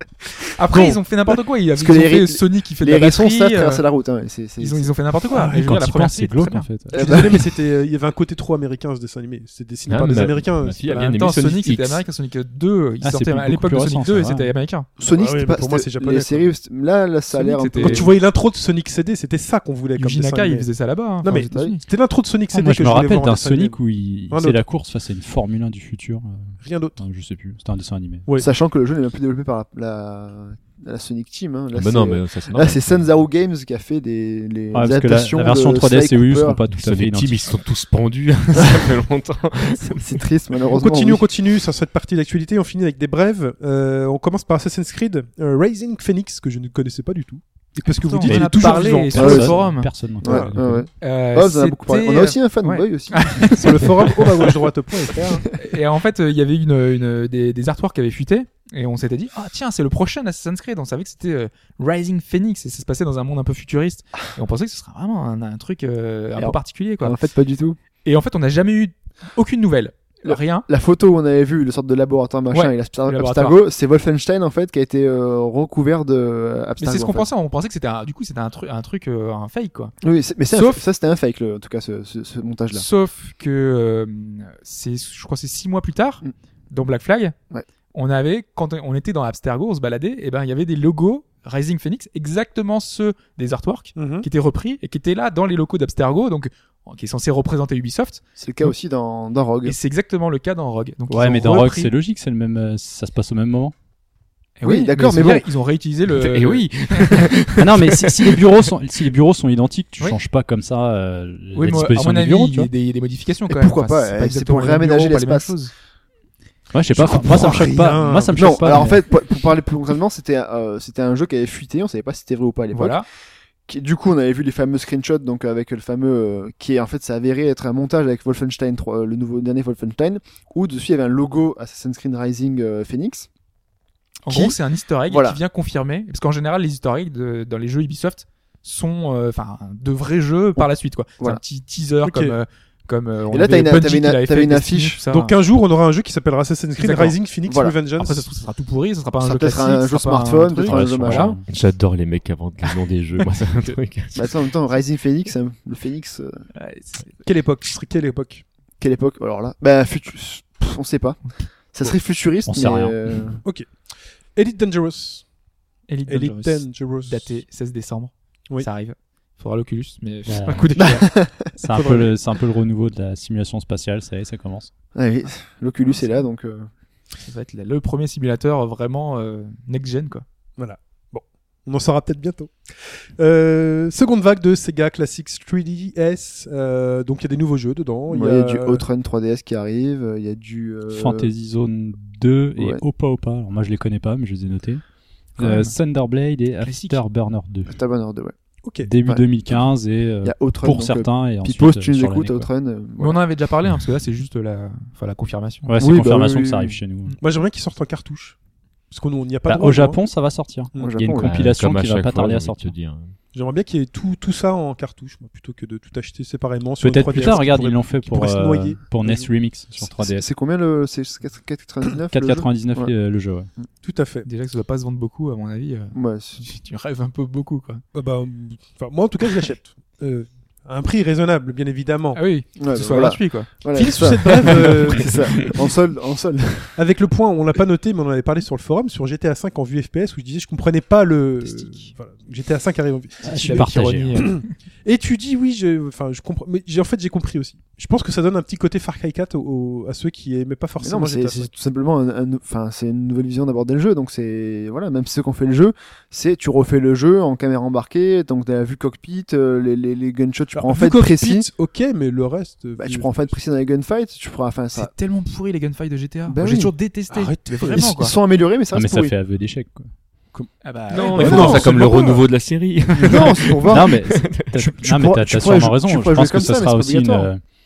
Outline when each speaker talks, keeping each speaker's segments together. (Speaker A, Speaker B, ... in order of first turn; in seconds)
Speaker A: 0.6-3.8, 4.6-7.3, 10.9-14.9, 17.3-18.1, 20.0-21.8, 47.8-49.9, 51.0-54.2, 55.5-67.2, 68.0-70.7, 72.5-73.6, 76.8-79.9, 80.5-80.8, 82.7-87.3, 87.9-98.2, 99.7-101.9, 104.6-107.3, 111.5-115.7, 122.7-123.1, 134.3-145.4, 146.8-147.2, 148.0-151.4, 156.6-157.2, 165.9-171.2, 177.2-180.2, 195.4-195.7, 196.6-197.0, 203.0-205.8, 224.2-227.8, 232.1-233.7, 241.4-241.9, 243.3-244.5, 264.7-268.1, 270.6-272.0
Speaker B: 0.7-1.0, 5.3-5.7, 6.9-11.2, 15.1-16.5, 17.8-20.7, 21.2-23.8, 24.3-24.6, 26.6-27.0, 40.7-49.4, 50.2-50.5, 53.5-55.5, 94.0-94.3, 117.0-118.8, 142.0-142.4, 145.1-148.3, 157.2-158.4, 163.4-165.3, 166.1-167.4, 171.7-172.1, 180.6-188.8, 207.2-208.4, 208.9-210.0, 213.3-218.8, 223.8-224.3, 227.9-232.2, 233.7-235.2, 236.8-251.5, 260.6-263.4, 267.1-267.9, 270.4-272.2
Speaker C: 1.7-4.9, 6.9-7.4, 15.0-18.1, 28.4-36.6, 39.8-41.3, 49.1-54.2, 66.4-67.8, 70.2-77.3, 80.0-82.8, 98.4-99.8, 104.6-105.5, 113.5-115.5, 117.3-117.7, 118.3-123.0, 123.7-133.3, 134.3-135.4, 143.3-145.0, 147.5-147.8, 149.2-151.4, 154.2-156.4, 158.8-161.2, 161.7-163.4, 170.8-171.3, 174.9-176.7, 188.1-191.3, 192.6-192.8, 197.7-198.3, 199.0-199.7, 200.2-203.2, 205.8-206.8, 210.8-211.3, 219.0-219.3, 219.8-222.9, 225.9-226.5, 232.6-236.8, 250.8-261.5, 262.8-264.9, 266.3-266.7, 267.7-269.1, 271.0-271.8, 273.0-273.9, 274.6-277.3
Speaker D: 5.5-7.0, 13.0-14.5, 22.5-28.3, 34.7-37.5, 48.2-50.9, 101.1-103.7, 107.6-112.7, 116.7-119.1, 150.7-151.5, 162.5-163.2, 170.3-170.7, 171.6-174.7, 190.9-194.8, 195.4-197.8, 198.8-202.5, 205.7-207.2, 209.5-212.7, 216.8-220.3, 222.1-223.5, 243.2-244.3, 268.7-269.9, 273.7-277.4
Speaker E: 9.9-12.0, 31.7-33.1, 36.7-40.2, 106.1-108.4, 151.5-154.4, 211.2-213.1, 270.9-274.5